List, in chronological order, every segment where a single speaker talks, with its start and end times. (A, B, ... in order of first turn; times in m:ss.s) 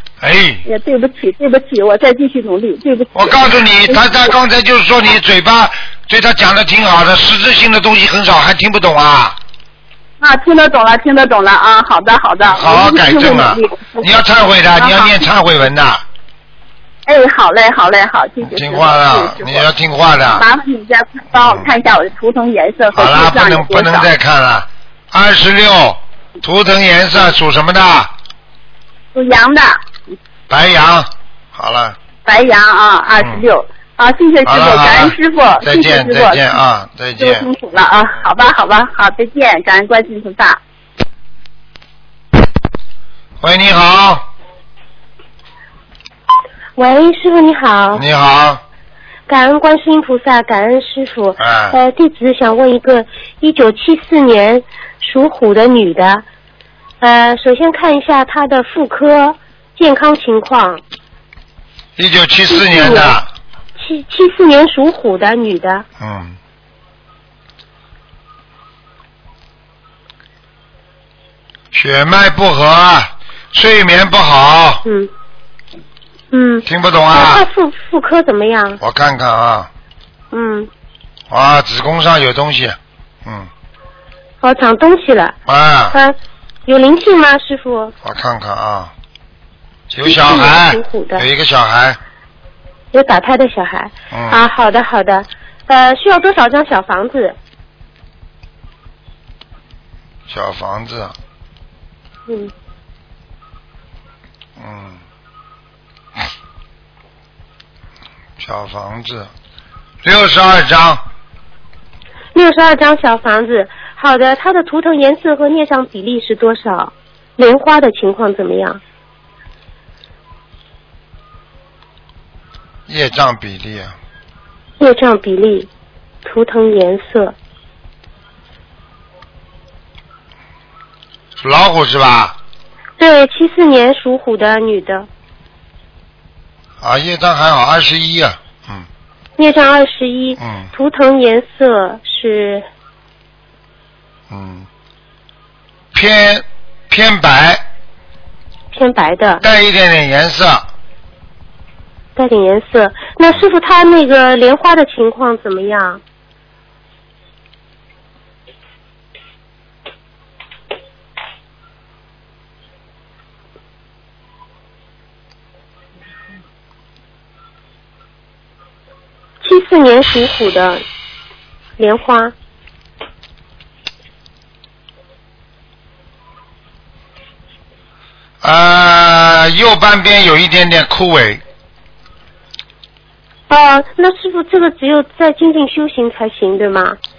0:00.2-0:00.6 A
0:00.6-0:04.1 B
0:03.1-0:09.4 A
0:10.2-0:14.1 B
0:12.4-0:16.0 A
0:14.8-0:15.2 B
0:17.1-0:19.6 B
0:18.4-0:20.4 A
0:20.3-0:24.1 B
0:21.3-0:21.7 A
0:22.9-0:28.1 A
0:29.1-0:29.8 B
0:30.5-0:32.0 A
0:32.2-0:36.4 B
0:33.2-0:33.4 A
0:34.4-0:37.5 A
0:37.2-0:40.6 B
0:43.4-0:44.2 A
0:46.8-0:48.0 C
0:47.9-0:48.6 A
0:49.3-0:56.2 C
0:51.4-0:51.8 A
0:57.0-1:00.8 C
1:02.0-1:03.3 A
1:02.5-1:03.2 C
1:03.7-1:05.8 C
1:06.0-1:06.4 A
1:11.7-1:14.8 A
1:14.8-1:15.1 C
1:16.3-1:18.8 C
1:16.6-1:17.4 A
1:18.8-1:19.7 A
1:20.3-1:20.7 C
1:21.3-1:23.5 A
1:24.4-1:25.3 C
1:25.4-1:26.0 A
1:26.7-1:27.9 C
1:28.0-1:28.9 A
1:29.9-1:32.0 A
1:30.0-1:31.3 C
1:32.9-1:37.4 C
1:34.1-1:34.5 A
1:40.3-1:41.1 A
1:42.3-1:42.5 C
1:44.6-1:45.0 A
1:48.4-1:49.3 A
1:50.0-1:51.0 A
1:52.3-1:58.8 C
2:02.9-2:03.9 A
2:04.8-2:05.7 C
2:06.2-2:07.4 C
2:11.4-2:12.4 A
2:13.0-2:15.1 C
2:16.8-2:18.9 A
2:19.4-2:22.7 C
2:20.4-2:20.7 A
2:24.3-2:24.7 A
2:25.9-2:27.6 A
2:28.7-2:29.4 C
2:29.4-2:30.7 A
2:32.2-2:36.0 C
2:49.4-2:50.8 C
2:51.8-2:52.3 C
2:58.4-3:01.4 A
3:03.5-3:07.0 C